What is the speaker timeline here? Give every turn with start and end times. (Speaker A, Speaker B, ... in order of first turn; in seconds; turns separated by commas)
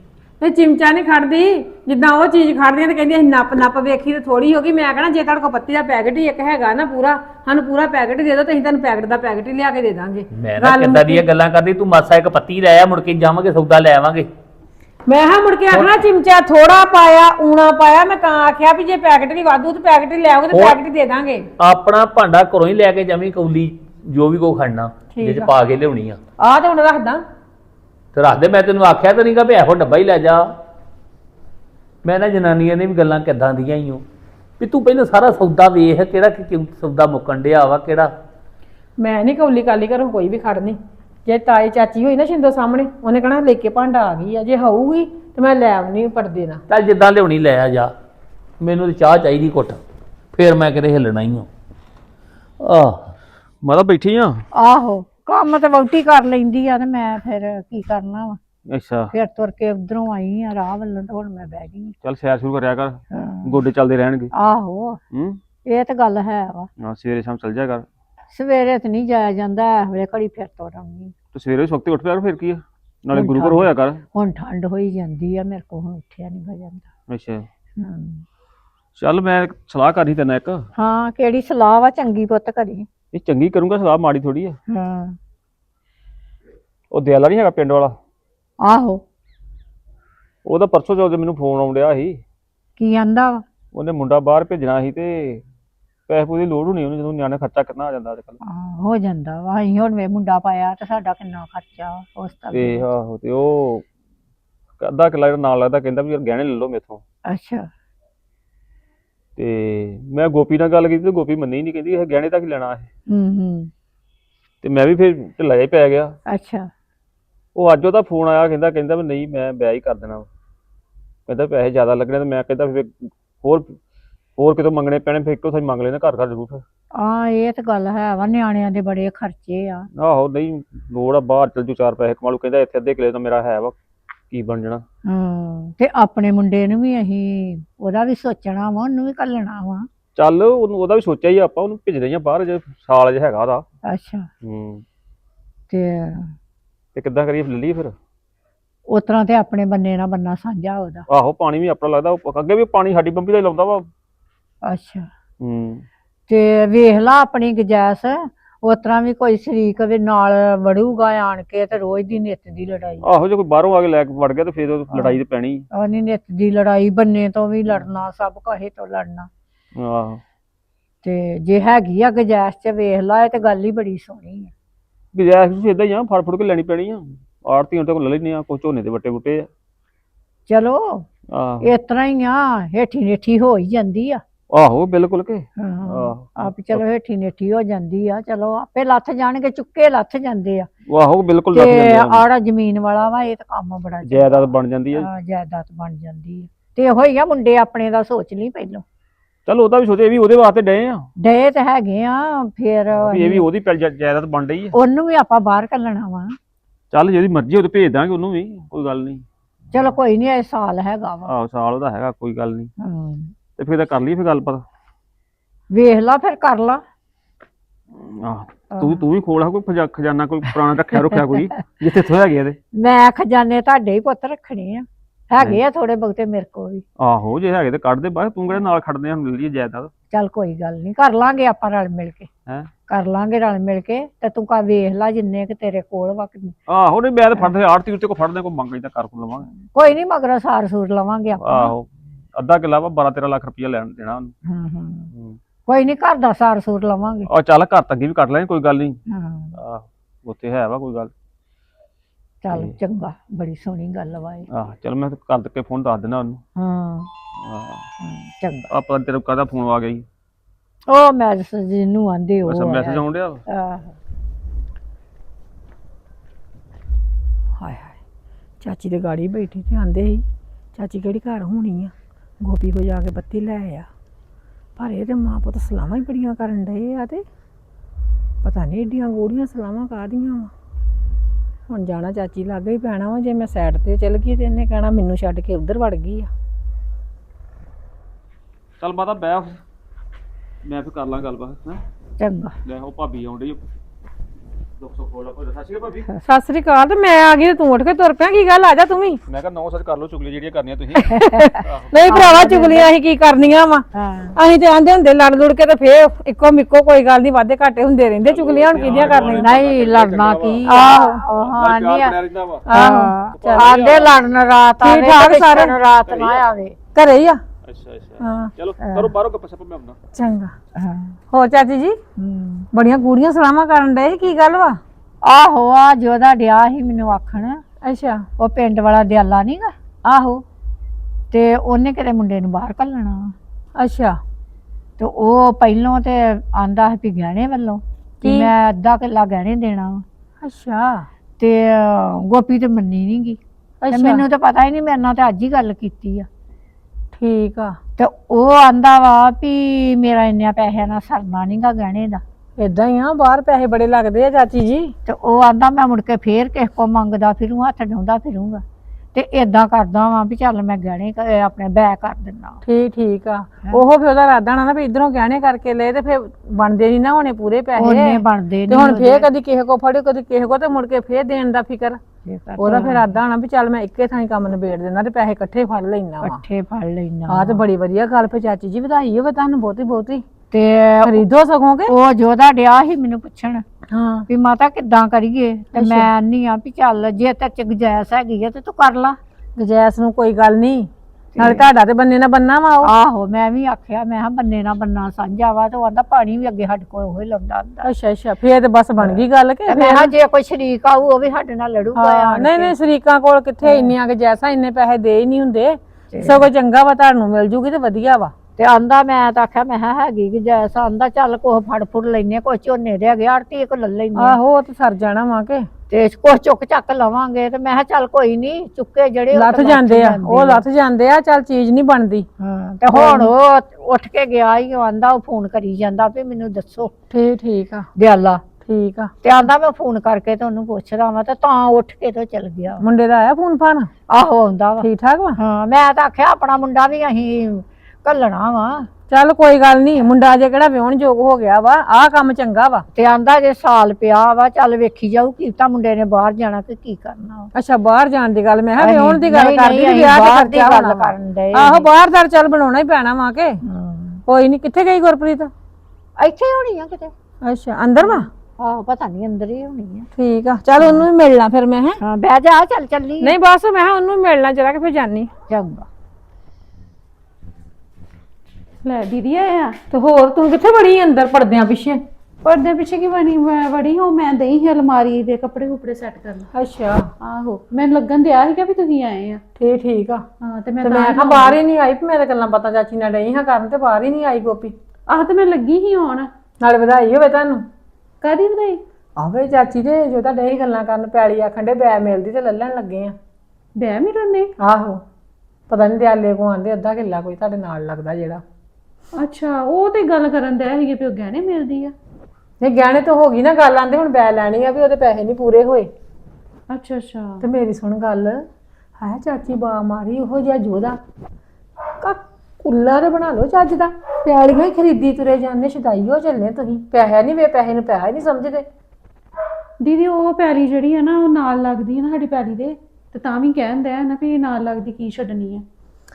Speaker A: 0.4-11.2, Speaker B: 10.3-14.3, Speaker A: 15.1-21.5, Speaker B: 20.5-20.8, Speaker B: 21.6-26.2, Speaker A: 25.1-25.5, Speaker A: 26.4-27.2, Speaker B: 28.1-30.5, Speaker B: 32.0-34.0, Speaker B: 34.6-38.1, Speaker A: 39.0-46.6, Speaker B: 46.7-47.9, Speaker B: 48.6-49.8, Speaker B: 50.3-51.5, Speaker B: 52.6-53.1, Speaker C: 53.6-54.4, Speaker D: 54.5-58.4, Speaker C: 58.7-59.1, Speaker D: 59.1-61.9, Speaker C: 62.0-64.3, Speaker D: 63.1-63.6, Speaker D: 64.3-65.0, Speaker C: 65.1-65.4, Speaker D: 65.6-66.7, Speaker C: 66.8-67.8, Speaker D: 68.3-71.1, Speaker C: 71.3-74.0, Speaker D: 73.1-76.9, Speaker C: 77.1-77.5, Speaker D: 77.8-78.2, Speaker C: 79.0-80.7, Speaker D: 80.8-82.9, Speaker C: 83.1-84.6, Speaker D: 84.7-85.2, Speaker C: 86.9-88.0, Speaker D: 88.6-89.0, Speaker C: 90.4-92.2, Speaker D: 92.8-93.4, Speaker C: 93.7-95.4, Speaker C: 96.1-98.4, Speaker D: 98.4-102.8, Speaker C: 102.5-103.8, Speaker C: 104.8-107.0, Speaker D: 107.2-107.7, Speaker C: 109.4-112.9, Speaker D: 113.1-113.7, Speaker C: 114.6-116.1, Speaker D: 116.3-116.7, Speaker C: 117.5-120.3, Speaker C: 121.3-123.8, Speaker C: 124.4-126.6, Speaker D: 126.9-129.9, Speaker C: 130.0-133.8, Speaker C: 134.3-134.8, Speaker D: 135.0-139.9, Speaker C: 140.2-143.6, Speaker D: 143.9-144.3, Speaker C: 144.4-144.8, Speaker D: 145.7-146.3, Speaker C: 146.9-147.9, Speaker D: 148.9-151.1, Speaker C: 151.1-153.9, Speaker D: 154.6-155.1, Speaker C: 155.4-155.8, Speaker D: 156.3-163.0, Speaker C: 163.0-165.6, Speaker D: 164.9-165.2, Speaker D: 165.7-169.3, Speaker C: 169.8-170.2, Speaker D: 171.0-174.5, Speaker C: 175.1-179.5, Speaker D: 180.5-181.1, Speaker C: 181.3-181.7, Speaker D: 181.6-184.2, Speaker C: 184.5-186.8, Speaker D: 185.6-190.7, Speaker C: 190.9-192.2, Speaker D: 191.5-198.8, Speaker C: 194.0-195.1, Speaker C: 199.4-201.1, Speaker D: 201.2-203.5, Speaker C: 202.9-204.7, Speaker D: 204.7-206.4, Speaker C: 206.9-209.2, Speaker D: 209.7-211.3, Speaker C: 211.3-212.7, Speaker D: 212.8-213.3, Speaker C: 213.6-214.6, Speaker D: 215.7-216.8, Speaker C: 217.9-222.6, Speaker D: 218.7-219.0, Speaker D: 222.7-226.8, Speaker C: 227.0-229.9, Speaker D: 230.1-232.3, Speaker D: 232.9-236.5, Speaker C: 236.7-239.5, Speaker D: 239.7-241.7, Speaker C: 241.4-244.3, Speaker D: 244.4-245.1, Speaker C: 245.1-245.4, Speaker D: 245.7-247.3, Speaker C: 247.3-249.0, Speaker D: 249.1-249.6, Speaker C: 249.5-251.1, Speaker D: 252.4-254.5, Speaker C: 254.5-256.4, Speaker D: 256.6-257.1, Speaker C: 257.4-257.9, Speaker D: 258.0-258.7, Speaker C: 258.7-260.1, Speaker D: 260.9-263.9, Speaker C: 262.4-263.4, Speaker A: 267.6-267.9, Speaker A: 268.6-273.9, Speaker A: 274.8-277.2, Speaker A: 278.4-280.5, Speaker A: 281.7-286.3, Speaker C: 288.8-289.6, Speaker C: 290.6-291.8, Speaker D: 292.2-292.6, Speaker C: 292.6-293.6, Speaker C: 294.8-296.1, Speaker A: 296.2-299.2, Speaker C: 299.3-302.1, Speaker A: 301.0-309.5, Speaker D: 301.1-302.9, Speaker D: 303.9-304.4, Speaker C: 308.2-314.2, Speaker D: 309.1-312.2, Speaker A: 310.6-311.2, Speaker A: 312.7-313.8, Speaker D: 312.7-316.8, Speaker A: 314.8-315.7, Speaker C: 316.1-316.4, Speaker A: 316.9-317.4, Speaker C: 317.6-320.0, Speaker A: 318.2-318.5, Speaker D: 318.8-319.1, Speaker A: 320.1-320.5, Speaker D: 320.7-321.2, Speaker A: 321.3-322.0, Speaker D: 322.1-322.7, Speaker A: 322.7-324.8, Speaker D: 325.2-327.6, Speaker A: 327.8-328.2, Speaker D: 328.4-330.4, Speaker D: 331.3-333.3, Speaker A: 333.8-334.2, Speaker D: 335.0-340.0, Speaker A: 338.2-338.5, Speaker A: 340.4-341.1, Speaker D: 341.4-343.4, Speaker A: 343.8-344.2, Speaker D: 343.9-346.3, Speaker A: 347.1-347.8, Speaker D: 348.0-352.2, Speaker A: 352.6-354.9, Speaker D: 355.1-358.6, Speaker D: 359.1-362.6, Speaker A: 362.6-372.0, Speaker D: 367.8-369.3, Speaker D: 372.2-373.2, Speaker A: 372.6-376.4, Speaker D: 376.2-377.6, Speaker A: 377.3-380.2, Speaker D: 380.5-381.2, Speaker A: 381.0-381.9, Speaker D: 381.9-383.6, Speaker A: 383.9-384.3, Speaker D: 384.3-389.2, Speaker A: 385.7-386.1, Speaker A: 389.6-392.9, Speaker D: 391.3-391.7, Speaker D: 392.8-397.9, Speaker A: 397.8-400.1, Speaker D: 399.0-402.7, Speaker A: 401.9-408.3, Speaker D: 403.6-403.9, Speaker D: 406.1-406.5, Speaker D: 408.6-414.4, Speaker A: 414.2-415.7, Speaker D: 415.9-420.6, Speaker A: 419.3-422.3, Speaker D: 422.4-426.9, Speaker A: 422.9-423.3, Speaker A: 427.1-427.9, Speaker D: 427.9-428.4, Speaker A: 428.6-429.1, Speaker D: 429.2-432.8, Speaker A: 432.8-433.9, Speaker D: 434.1-438.9, Speaker A: 434.8-435.4, Speaker A: 439.1-442.9, Speaker D: 442.9-447.5, Speaker A: 447.5-453.6, Speaker D: 448.8-451.9, Speaker D: 453.6-454.2, Speaker A: 454.3-455.5, Speaker D: 456.2-457.1, Speaker A: 457.4-458.3, Speaker D: 458.0-460.1, Speaker A: 460.1-462.0, Speaker D: 460.8-461.1, Speaker D: 462.0-463.4, Speaker A: 463.2-465.3, Speaker D: 465.5-465.9, Speaker E: 468.8-469.8, Speaker A: 469.9-472.0, Speaker E: 472.4-476.5, Speaker A: 476.5-477.1, Speaker E: 477.2-479.4, Speaker A: 479.6-480.2, Speaker E: 480.4-481.6, Speaker A: 480.8-484.7, Speaker E: 485.1-486.3, Speaker A: 486.6-487.6, Speaker E: 488.2-488.8, Speaker A: 489.2-493.1, Speaker E: 493.8-494.5, Speaker A: 494.6-495.0, Speaker A: 495.7-498.4, Speaker E: 499.1-501.9, Speaker A: 502.6-505.9, Speaker E: 506.7-507.4, Speaker A: 507.4-508.4, Speaker A: 509.0-511.0, Speaker A: 512.0-518.6, Speaker E: 519.8-525.6